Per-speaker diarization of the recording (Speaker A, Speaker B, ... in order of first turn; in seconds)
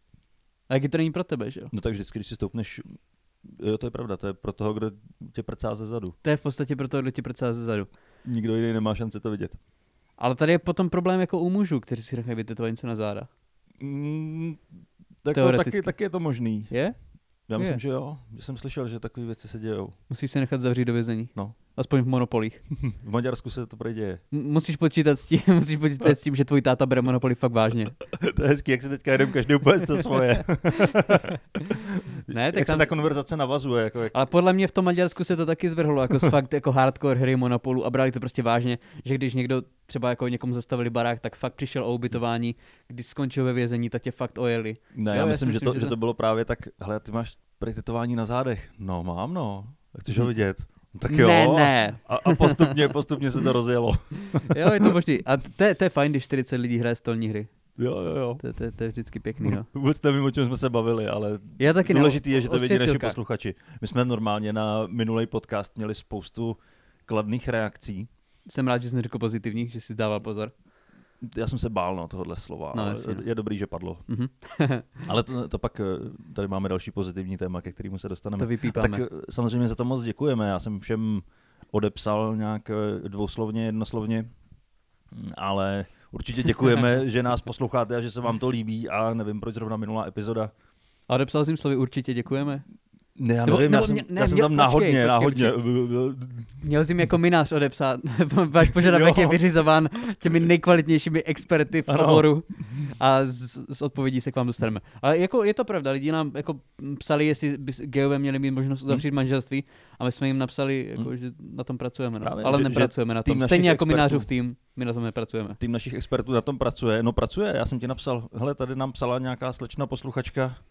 Speaker A: 0.7-1.7, 6.2-7.9, 10.2-13.3, 15.3-15.9, 16.7-17.0, 20.1-22.6, 24.3-28.0, 30.9-31.3, 32.3-32.9, 34.1-46.0, 51.1-52.9, 54.2-57.5, 58.4-59.7, 61.6-63.2, 68.5-70.5, 72.7-73.2, 74.1-75.1, 78.4-79.0, 91.1-92.7, 93.5-95.5, 96.6-115.6
Speaker B: 1.7-6.2, 8.2-9.6, 13.8-14.6, 15.2-16.7, 17.5-19.9, 22.8-24.2, 28.0-34.1, 44.9-55.0, 57.8-58.4, 59.4-68.1, 71.2-74.0, 75.1-84.3, 85.1-90.5, 93.2-96.5, 98.7-99.4, 101.9-102.3, 112.2-114.3, 115.6-120.6